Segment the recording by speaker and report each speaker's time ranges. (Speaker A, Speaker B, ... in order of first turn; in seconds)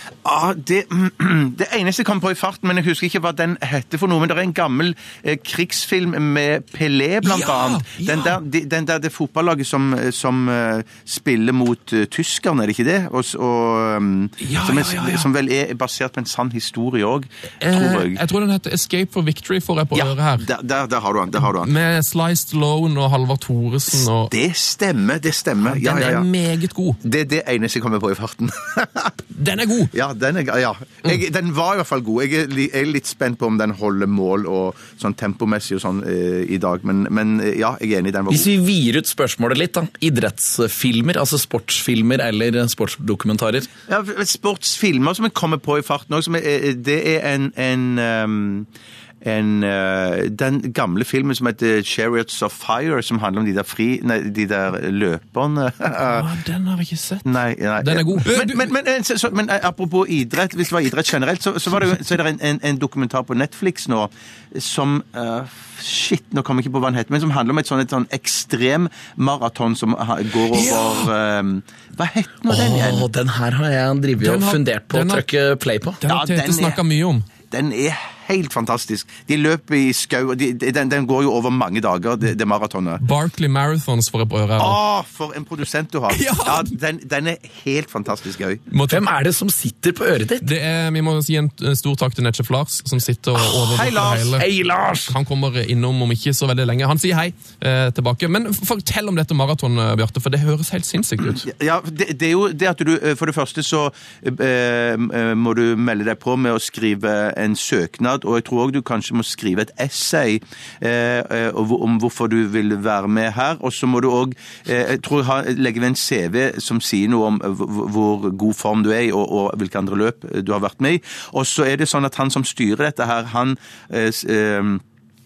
Speaker A: 0.2-18.2, 19.9-21.7, 23.9-26.3, 27.0-29.1, 29.9-38.5, 43.9-48.7, 49.2-56.3, 57.2-73.1, 76.0-76.8, 77.5-83.0, 84.6-88.6, 93.5-94.4, 101.3-124.8
Speaker B: 7.2-8.3, 14.4-15.2, 17.6-20.5, 21.4-24.3, 25.6-27.0, 29.3-29.9, 56.0-57.3, 57.8-58.7, 70.6-70.9, 74.2-75.2, 76.0-77.2, 83.0-84.8, 86.1-86.7, 88.7-89.0, 90.4-94.5, 95.1-101.5
Speaker C: 38.3-43.7, 72.5-76.0, 88.9-90.5, 94.1-95.1